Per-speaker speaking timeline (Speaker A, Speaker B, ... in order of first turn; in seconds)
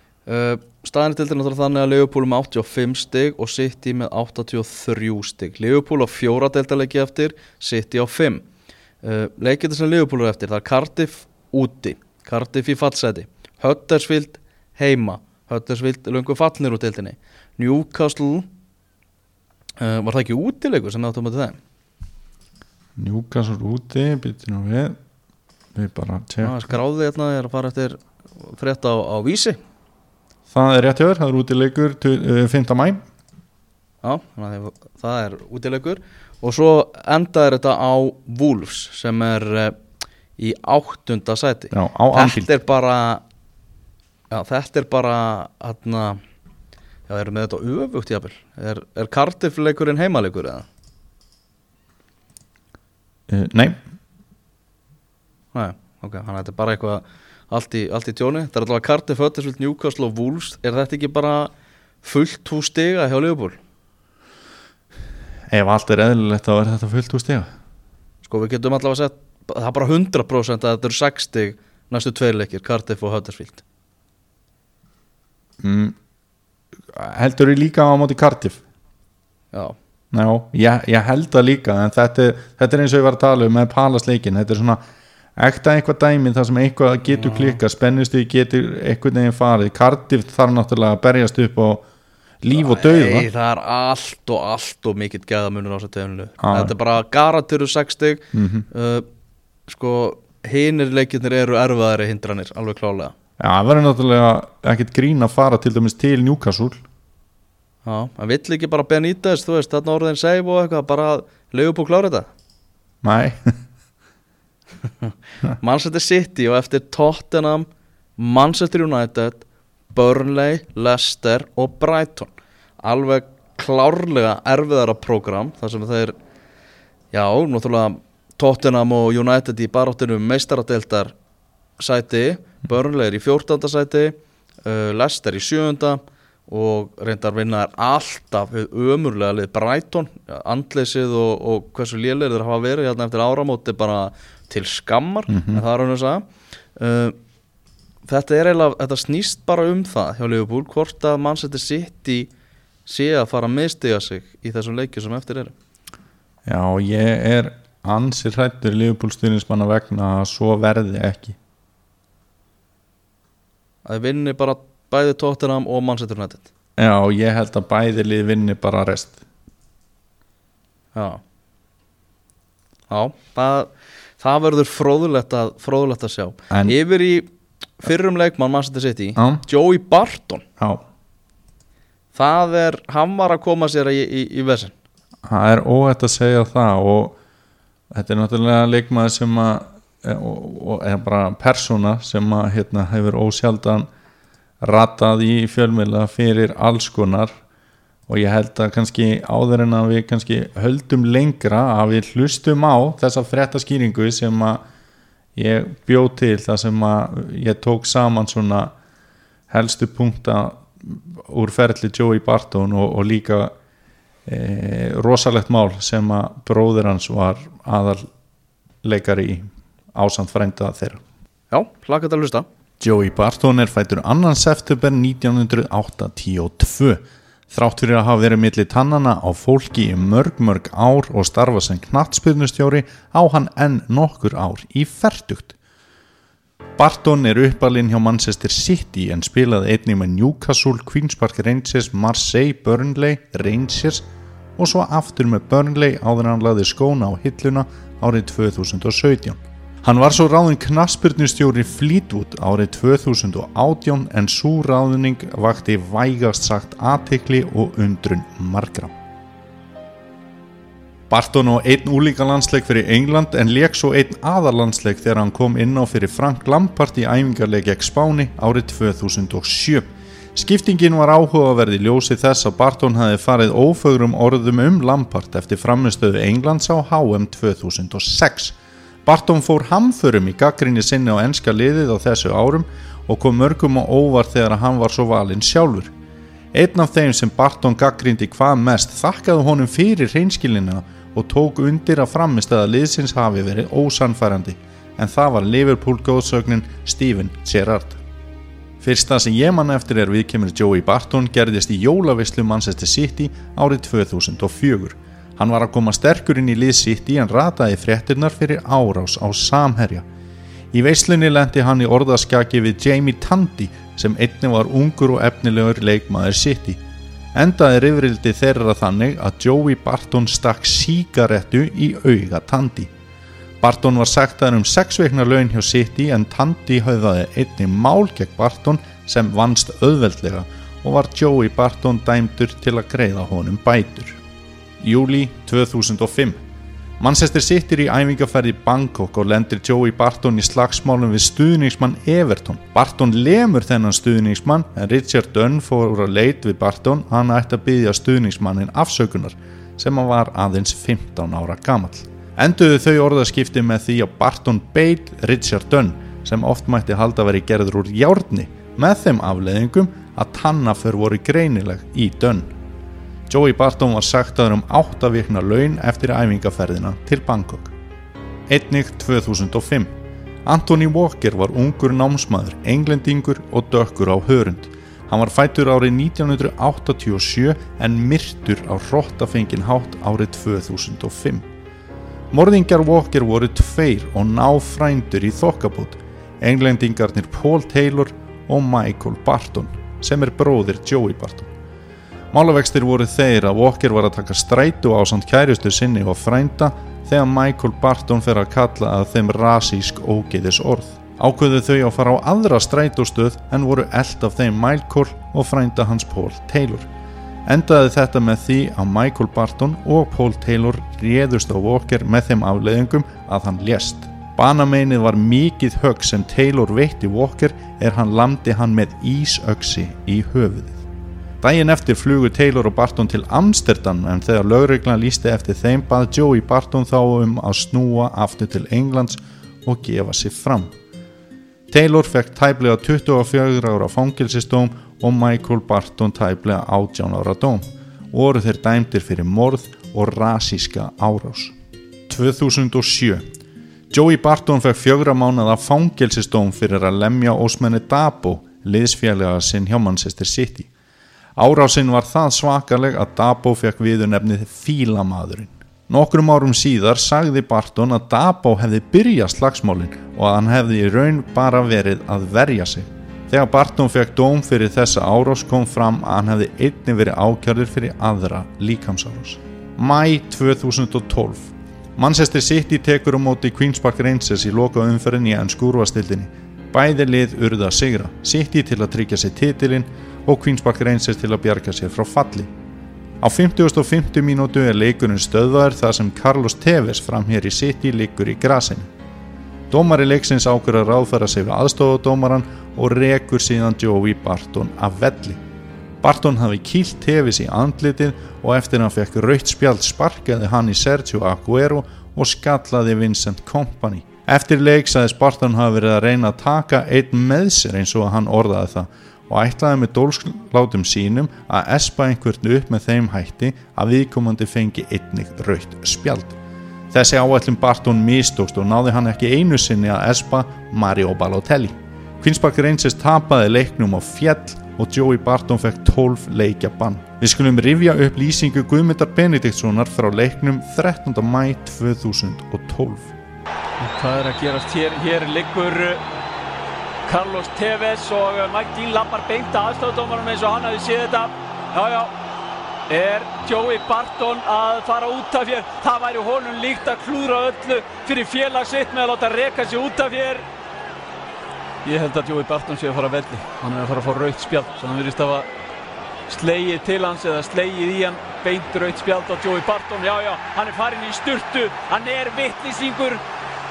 Speaker A: 0.3-8.4, 9.0-18.5, 19.8-21.6, 26.4-29.6, 34.0-39.8, 40.4-43.2, 44.3-46.2, 47.1-50.6, 55.5-61.5, 62.0-63.6, 68.2-73.6, 87.1-87.6, 92.5-99.0, 99.7-103.1, 107.8-112.3, 115.0-126.1, 127.1-131.1, 131.8-146.2, 146.8-147.2, 148.1-152.3, 152.8-155.5, 163.8-166.5, 170.9-171.2, 172.9-177.3, 177.8-180.4, 182.1-184.7, 221.5-222.5
Speaker B: 22.9-25.0, 25.7-26.7, 30.5-33.0, 41.7-42.5, 53.3-53.8, 65.5-67.5, 75.6-76.0, 76.9-78.6, 80.1-84.8, 85.4-91.8, 92.4-93.3, 96.4-96.7, 98.3-98.7, 103.4-106.8, 113.0-113.5, 145.3-145.6, 156.4-161.4, 166.8-169.2, 179.2-179.4, 185.2-187.2, 187.9-193.9, 194.6-197.4, 198.1-204.6, 205.3-208.7, 209.5-213.5, 214.2-218.1, 218.8-221.0, 222.8-235.5, 236.8-244.0, 244.6-258.9, 261.1-285.9, 286.5-298.0, 298.8-310.1, 310.7-316.8, 317.3-322.9, 323.6-334.2, 334.8-336.4, 337.0-362.5, 363.3-367.7, 368.5-381.5, 382.3-391.5, 392.3-406.9, 407.4-420.8, 421.4-430.7, 431.7-441.6, 442.1-443.2, 443.9-450.7, 451.4-482.5, 483.2-488.9, 489.7-495.4, 496.0-516.4, 516.9-533.1
Speaker C: 533.8-536.0, 537.1-542.1, 542.9-550.4, 551.8-555.5, 556.3-563.2